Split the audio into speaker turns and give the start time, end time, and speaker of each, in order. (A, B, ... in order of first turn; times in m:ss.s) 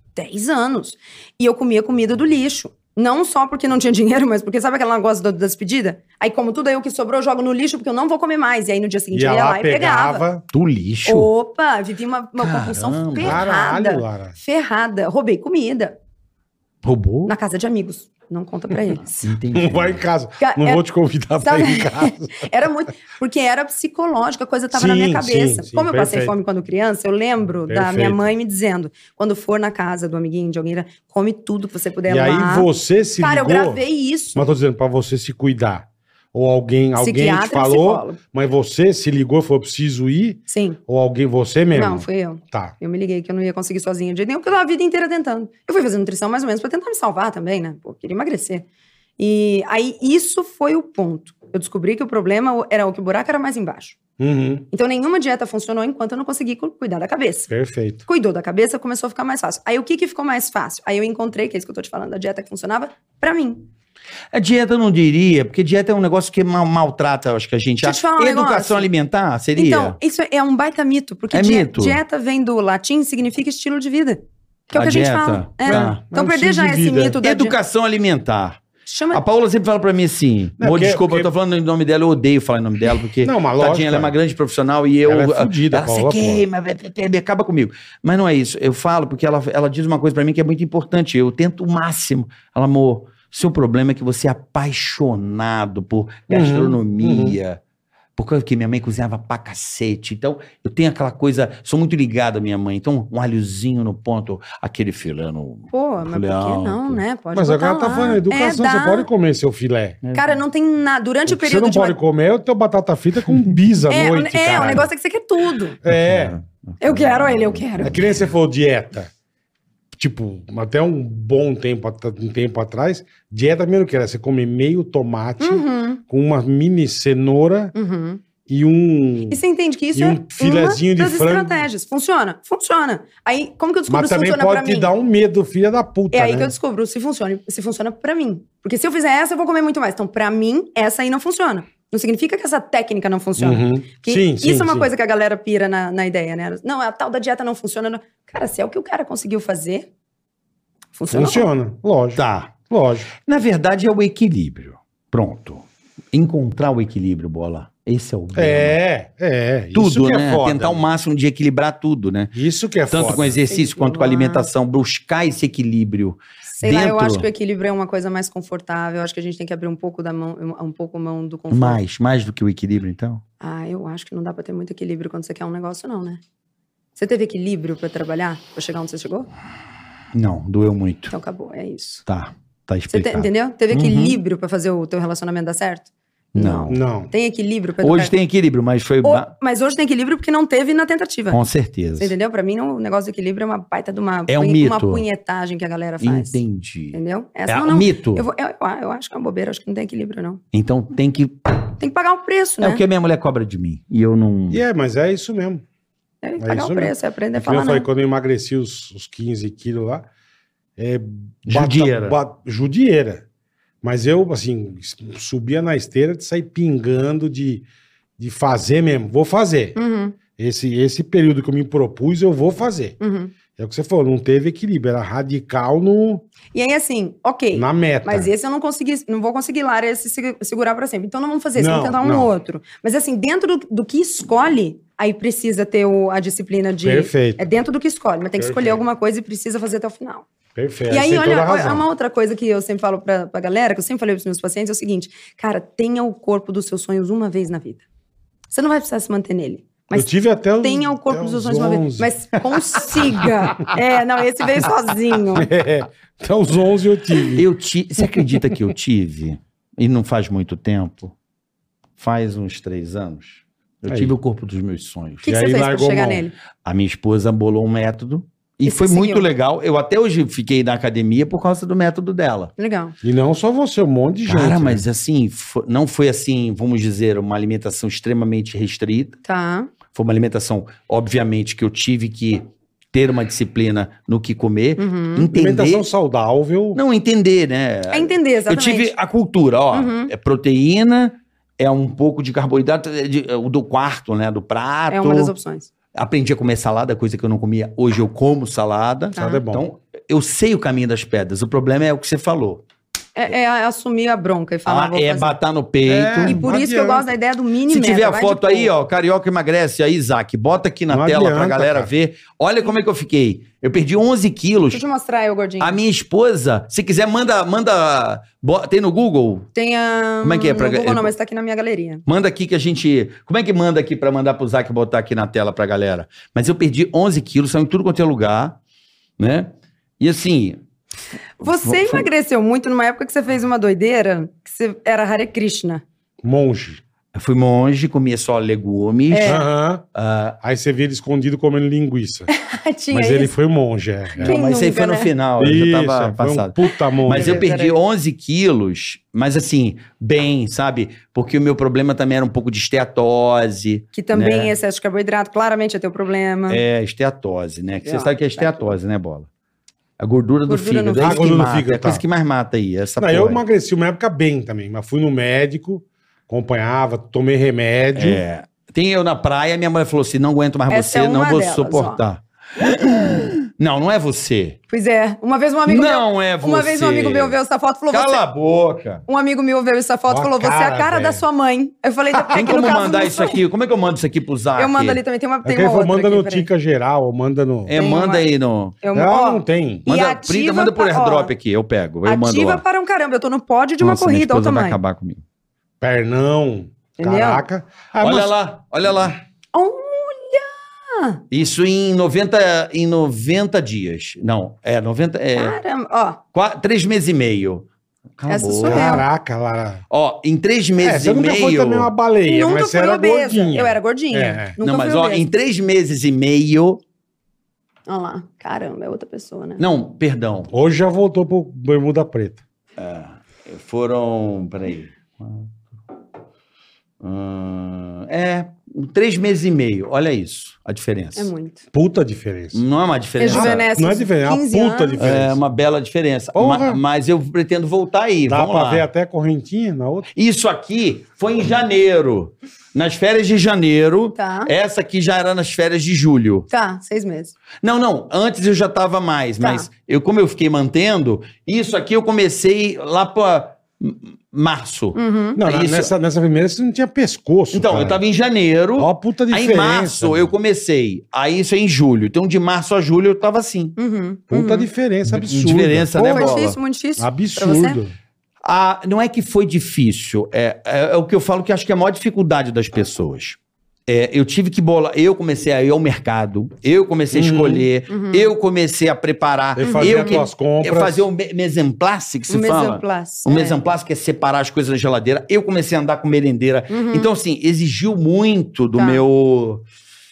0:00.2-0:10.2 A
0:09.1-0:10.4 B
0:10.5-0:11.3 C
0:11.0-0:16.0 A
0:12.4-0:13.4 C
0:13.2-0:14.4 B
0:16.8-0:17.3 C
0:17.3-0:19.3 A
0:19.2-0:20.0 C
0:19.5-0:22.5 B
0:20.4-0:20.8 A
0:21.4-0:34.5 A
0:24.7-0:26.3 B
0:27.7-0:28.3 B
0:32.1-0:33.8 B
0:34.3-0:42.7 B
0:37.0-0:38.2 A
0:40.5-0:40.8 A
0:41.7-0:48.6 A
0:49.2-0:54.0 A
0:54.2-0:54.6 B
0:54.7-0:57.5 A
0:57.5-0:58.0 B
0:58.0-1:03.6 A
1:04.3-1:10.0 C
1:07.8-1:08.9 A
1:09.5-1:17.5 A
1:11.3-1:12.0 C
1:14.7-1:16.0 C
1:15.7-1:17.2 B
1:17.2-1:18.6 C
1:18.8-1:19.2 A
1:19.1-1:37.6 C
1:20.6-1:21.3 B
1:23.2-1:24.1 B
1:25.0-1:26.4 B
1:36.3-1:37.4 B
1:38.2-1:47.0 C
1:45.7-1:49.1 A
1:47.3-1:50.0 B
1:50.0-1:50.4 C
1:50.1-1:52.0 A
1:51.3-1:54.9 B
1:53.9-1:55.8 A
1:55.8-1:56.4 B
1:55.9-1:58.3 C
1:56.8-1:58.0 A
1:57.8-1:59.1 B
1:59.9-2:07.7 B
2:05.4-2:06.0 A
2:07.7-2:08.2 A
2:08.5-2:09.4 B
2:09.3-2:14.9 A
2:09.9-2:11.6 B
2:13.9-2:16.5 B
2:16.1-2:29.9 A
2:23.4-2:24.9 B
2:30.9-2:31.5 A
2:31.1-2:33.1 B
2:32.2-2:32.5 C
2:33.2-2:38.8 C
2:38.3-2:40.8 B
2:39.7-2:42.3 C
2:42.3-2:43.4 B
2:42.9-2:47.3 C
2:43.3-2:44.5 A
2:46.5-2:51.8 A
2:51.5-2:53.2 C
2:53.4-2:56.2 A
2:57.0-2:59.3 A
3:00.1-3:01.1 C
3:01.1-3:02.0 A
3:02.1-3:04.2 C
3:02.9-3:08.1 A
3:06.3-3:06.8 C
3:06.7-3:07.1 B
3:07.8-3:09.3 C
3:09.0-3:11.4 A
3:11.3-3:12.1 C
3:12.0-3:16.4 A
3:14.3-3:15.0 C
3:16.0-3:18.2 C
3:16.9-3:20.4 A
3:20.5-3:21.7 C
3:21.8-3:22.8 A
3:22.6-3:24.6 C
3:24.5-3:25.6 B
3:26.2-3:27.9 A
3:26.4-3:30.1 B
3:30.8-3:33.2 B
3:31.4-3:32.2 C
3:33.8-3:37.6 B
3:38.2-3:39.8 B
3:39.7-3:40.2 A
3:40.4-3:43.0 B
3:43.0-3:43.3 A
3:43.5-3:46.2 B
3:46.5-4:00.2 A
3:47.5-3:48.3 B
3:51.6-3:52.3 B
3:56.8-3:57.4 B
3:58.4-3:58.8 B
4:00.5-4:01.8 B
4:00.9-4:07.8 A
4:08.5-4:10.1 A
4:09.9-4:12.1 B
4:10.6-4:15.5 A
4:12.7-4:13.3 C
4:15.3-4:17.4 B
4:17.3-4:21.1 C
4:18.0-4:18.4 B
4:22.0-4:25.2 C
4:23.9-4:24.1 B
4:25.2-4:26.3 A
4:25.2-4:26.2 B
4:26.6-4:32.5 C
4:28.6-4:29.3 A
4:32.6-4:32.9 A
4:33.0-4:34.8 B
4:34.3-4:39.2 C
4:39.2-4:39.7 A
4:39.9-4:45.9 C
4:44.8-4:45.3 A
4:45.3-4:46.8 B
4:46.7-4:55.3 C
4:47.9-4:48.9 A
4:49.7-4:50.1 A
4:54.9-4:55.7 A
4:55.9-5:02.6 C
4:59.1-4:59.4 A
4:59.2-4:59.6 B
5:03.1-5:05.3 A
5:04.6-5:06.5 C
5:05.8-5:07.1 B
5:06.2-5:08.7 A
5:07.7-5:14.8 C
5:10.9-5:11.9 B
5:14.7-5:15.8 A
5:15.6-5:19.5 C
5:19.5-5:22.0 A
5:20.2-5:21.1 C
5:22.0-5:28.6 C
5:29.2-5:30.6 C
5:31.4-5:35.8 A
5:31.4-5:32.1 C
5:36.2-5:36.8 B
5:37.1-5:40.4 C
5:39.1-5:39.4 A
5:39.2-5:39.8 B
5:40.4-5:42.3 B
5:42.3-5:43.3 A
5:42.9-5:44.3 B
5:44.2-5:45.1 A
5:44.2-5:54.5 C
5:45.4-5:47.5 B
5:47.0-5:47.8 A
5:53.9-5:56.6 A
5:56.5-5:59.3 C
5:57.8-5:58.7 A
6:00.0-6:03.4 C
6:00.5-6:01.4 A
6:01.0-6:02.0 B
6:03.0-6:08.2 B
6:07.9-6:14.6 C
6:10.7-6:12.0 A
6:14.7-6:18.2 A
6:15.7-6:17.4 C
6:17.9-6:19.0 C
6:19.1-6:23.4 A
6:20.1-6:21.2 B
6:22.1-6:22.9 B
6:22.3-6:25.0 C
6:24.6-6:26.5 A
6:25.4-6:27.8 B
6:27.7-6:28.8 C
6:27.7-6:28.3 A
6:28.8-6:31.3 A
6:28.9-6:29.8 B
6:29.8-6:32.6 C
6:32.0-6:34.8 A
6:33.8-6:35.2 C
6:35.8-6:38.3 B
6:37.0-6:37.4 A
6:38.0-6:39.2 C
6:39.5-6:41.2 A
6:41.3-6:45.6 C
6:45.4-6:46.2 A
6:46.3-6:47.6 C
6:48.2-6:49.1 C
6:48.3-6:49.0 A
6:48.6-6:49.8 B
6:49.9-6:51.9 C
6:50.8-6:54.6 B
6:52.2-6:55.2 A
6:54.6-6:56.8 C
6:57.9-6:59.6 A
6:59.6-7:00.5 C
7:00.5-7:02.4 B
7:02.8-7:05.5 C
7:07.0-7:11.3 C
7:11.2-7:11.6 A
7:11.7-7:12.6 B
7:12.5-7:13.7 C
7:13.2-7:15.0 A
7:13.2-7:15.4 B
7:15.0-7:18.9 C
7:16.3-7:16.8 B
7:18.3-7:20.1 B
7:20.1-7:26.5 C
7:24.2-7:24.5 A
7:26.5-7:27.4 A
7:27.6-7:35.9 C
7:29.4-7:29.7 A
7:34.9-7:35.4 A
7:35.4-7:38.0 B
7:37.5-7:43.8 C
7:38.8-7:40.3 B
7:43.8-7:44.7 A
7:44.3-7:47.9 B
7:45.1-7:46.6 C
7:46.0-7:47.8 A
7:48.4-8:09.6 C
7:57.1-7:57.7 B
7:57.9-7:58.3 A
7:59.6-8:01.1 B
7:59.6-8:00.2 A
8:02.3-8:03.6 A
8:06.7-8:07.1 A
8:08.8-8:09.0 A